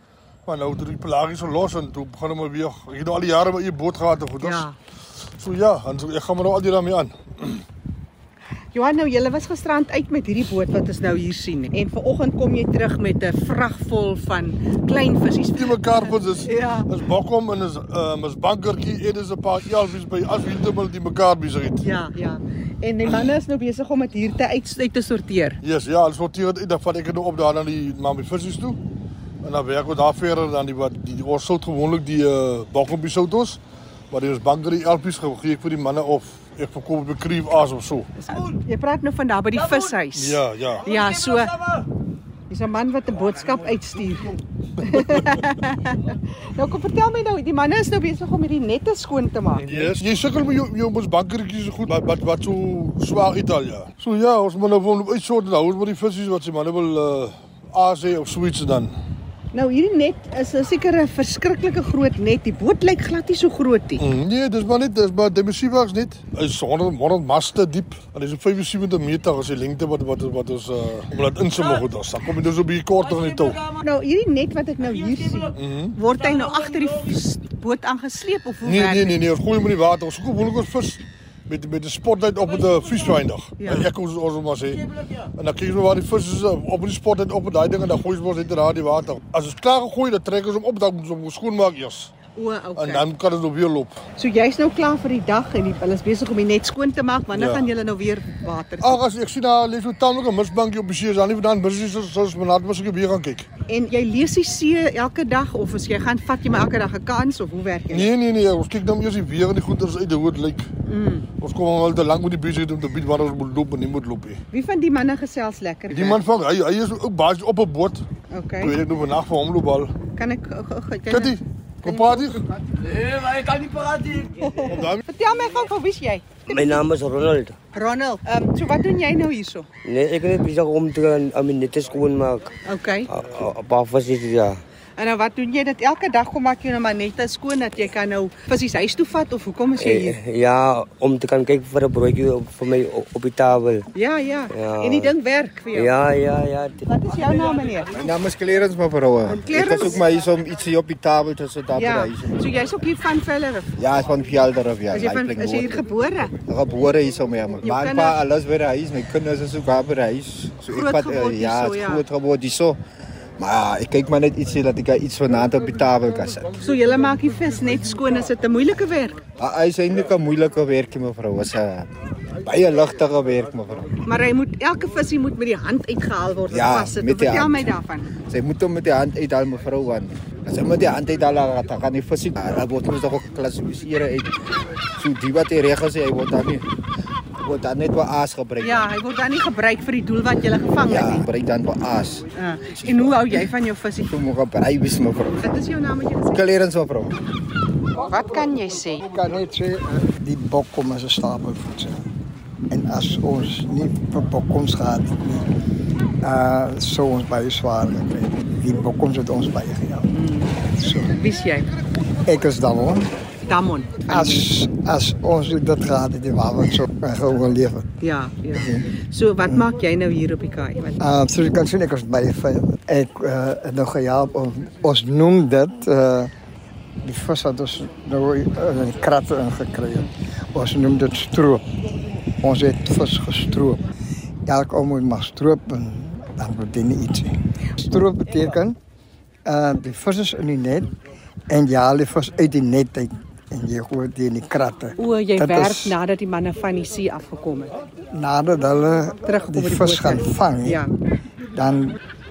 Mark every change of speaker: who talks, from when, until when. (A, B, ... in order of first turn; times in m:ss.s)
0:00.5-0:04.7 A
0:04.4-0:04.7 B
0:05.3-0:07.6 A
0:08.7-0:16.9 B
0:15.6-0:21.9 A
0:21.8-0:25.6 B
0:23.1-0:23.3 A
0:25.6-0:28.8 A
0:29.4-0:38.1 A
0:38.2-0:41.6 B
0:40.1-0:40.9 A
0:42.5-0:49.8 B
0:45.0-0:45.4 A
0:49.6-0:59.0 A
0:59.5-1:04.0 B
1:04.0-1:13.7 A
1:13.7-1:19.2 B
1:15.6-1:16.0 A
1:18.6-1:32.2 A
1:23.6-1:23.9 B
1:32.4-1:33.1 B
1:32.8-1:34.0 A
1:34.2-1:39.0 B
1:37.3-1:37.7 A
1:38.8-1:43.5 A
1:43.7-1:48.1 B
1:47.9-1:50.7 A
1:50.9-1:51.3 B
1:51.4-1:54.4 A
1:54.5-1:56.2 B
1:55.9-1:58.1 A
1:58.3-1:58.8 B
1:58.6-2:00.0 A
2:00.1-2:02.6 B
2:01.1-2:02.5 A
2:04.1-2:06.6 B
2:04.6-2:05.0 A
2:06.5-2:07.6 C
2:07.7-2:09.7 B
2:09.8-2:12.5 C
2:12.6-2:13.1 B
2:13.1-2:14.6 C
2:15.0-2:20.2 B
2:19.8-2:23.9 C
2:24.0-2:26.0 B
2:24.5-2:25.1 C
2:25.7-2:26.8 C
2:26.8-2:28.0 B
2:27.9-2:32.4 D
2:29.3-2:30.0 B
2:31.8-2:33.7 B
2:33.8-2:35.8 D
2:34.9-2:36.4 B
2:36.4-2:42.8 D
2:37.6-2:38.2 B
2:40.7-2:42.0 B
2:43.4-2:46.6 D
2:46.6-2:49.2 B
2:49.4-2:51.9 D
2:52.4-2:54.0 D
2:54.1-2:58.1 B
2:56.5-2:57.7 D
2:58.3-3:04.4 D
3:05.0-3:06.6 D
3:07.4-3:08.9 D
3:08.6-3:11.3 B
3:10.9-3:13.2 D
3:12.3-3:14.2 B
3:14.1-3:15.6 D
3:15.4-3:16.4 B
3:16.3-3:17.2 D
3:18.0-3:19.0 B
3:19.0-3:22.0 E
3:22.7-3:25.5 E
3:26.2-3:30.1 E
3:30.1-3:31.7 B
3:30.7-3:31.1 E
3:32.2-3:33.1 E
3:33.4-3:34.5 B
3:34.1-3:38.0 E
3:38.0-3:41.0 B
3:38.5-3:38.9 E
3:41.0-3:46.3 E
3:47.0-3:51.7 E
3:52.4-3:53.9 E
3:54.5-3:58.8 E
3:59.5-4:00.9 E
4:01.5-4:06.0 E
4:05.0-4:07.7 B
4:08.1-4:10.8 E
4:09.3-4:10.9 B
4:11.5-4:12.0 E